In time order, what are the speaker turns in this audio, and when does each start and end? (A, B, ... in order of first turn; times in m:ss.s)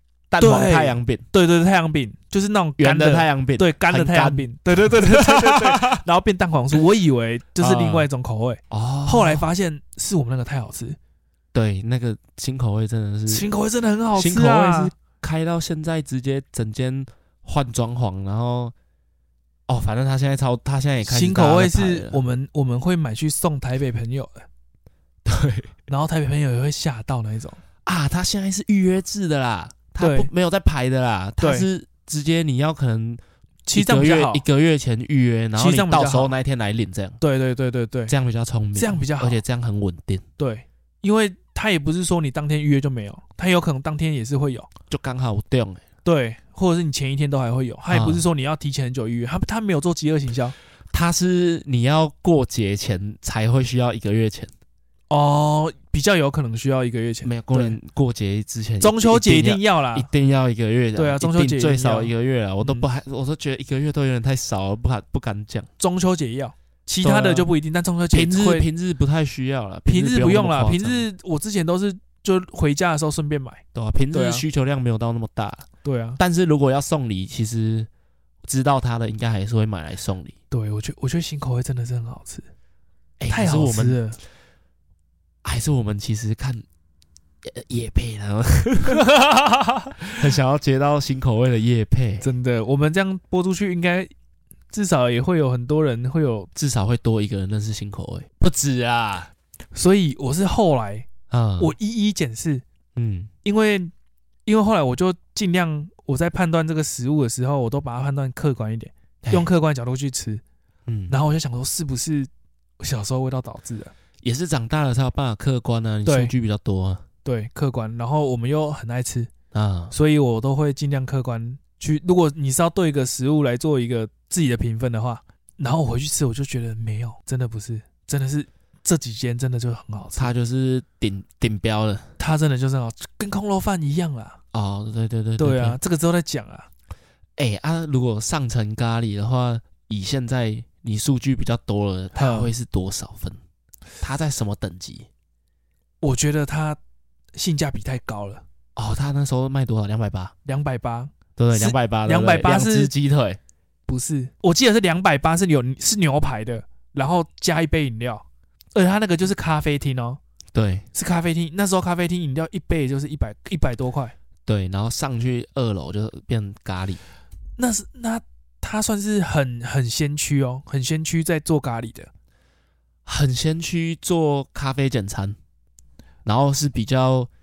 0:00.3-0:01.2 A
0:00.4-0:11.0 B
0:02.8-0:06.0 A
0:07.6-0:08.1 A
0:08.7-0:09.4 A
0:11.5-0:13.5 A
0:13.3-0:14.9 B
0:14.2-0:18.7 A
0:19.7-0:22.2 A
0:21.0-0:24.5 B
0:25.2-0:25.7 A
0:25.9-0:27.6 B
0:27.9-0:33.2 A
0:30.0-0:30.3 B
0:31.4-0:31.7 B
0:33.7-0:34.4 B
0:33.7-0:37.2 A
0:35.6-0:36.4 B
0:37.2-0:38.1 B
0:38.1-0:40.2 A
0:38.8-0:39.4 B
0:40.4-0:44.7 B
0:44.9-0:45.8 A
0:46.0-0:50.6 B
0:47.9-0:48.2 A
0:50.9-0:54.5 A
0:55.1-0:57.8 B
0:57.2-1:05.7 A
0:58.8-1:00.1 B
1:01.0-1:02.9 B
1:05.8-1:08.7 B
1:07.0-1:07.5 A
1:08.1-1:11.1 A
1:09.9-1:13.6 B
1:13.7-1:15.7 A
1:14.1-1:14.4 B
1:15.8-1:16.2 B
1:16.2-1:17.9 A
1:18.4-1:20.4 A
1:20.5-1:22.5 B
1:23.2-1:24.0 A
1:23.3-1:24.2 B
1:25.4-1:26.6 A
1:27.4-1:29.0 A
1:28.9-1:30.0 B
1:30.0-1:32.3 A
1:32.2-1:34.1 B
1:34.7-1:36.5 B
1:36.6-1:39.3 A
1:39.7-1:41.1 B
1:41.3-1:41.7 A
1:41.6-1:42.6 B
1:43.0-1:43.3 A
1:43.4-1:43.9 B
1:44.5-1:50.4 B
1:49.2-1:49.5 A
1:50.9-1:51.2 A
1:51.1-1:53.9 B
1:54.2-1:57.0 A
1:56.1-1:56.3 B
1:57.2-1:59.3 B
1:59.5-1:59.9 A
1:59.9-2:10.3 B
2:10.2-2:12.1 A
2:12.2-2:14.4 B
2:14.5-2:15.8 A
2:15.4-2:16.7 B
2:17.4-2:23.4 A
2:22.2-2:22.5 B
2:24.0-2:25.1 A
2:26.0-2:26.8 B
2:27.4-2:28.4 B
2:28.8-2:30.3 A
2:30.4-2:32.9 B
2:31.4-2:33.4 A
2:33.9-2:40.2 B
2:40.5-2:40.9 A
2:40.9-2:44.2 B
2:44.5-2:47.0 A
2:47.6-2:52.1 B
2:53.1-2:55.4 A
2:56.2-2:57.3 A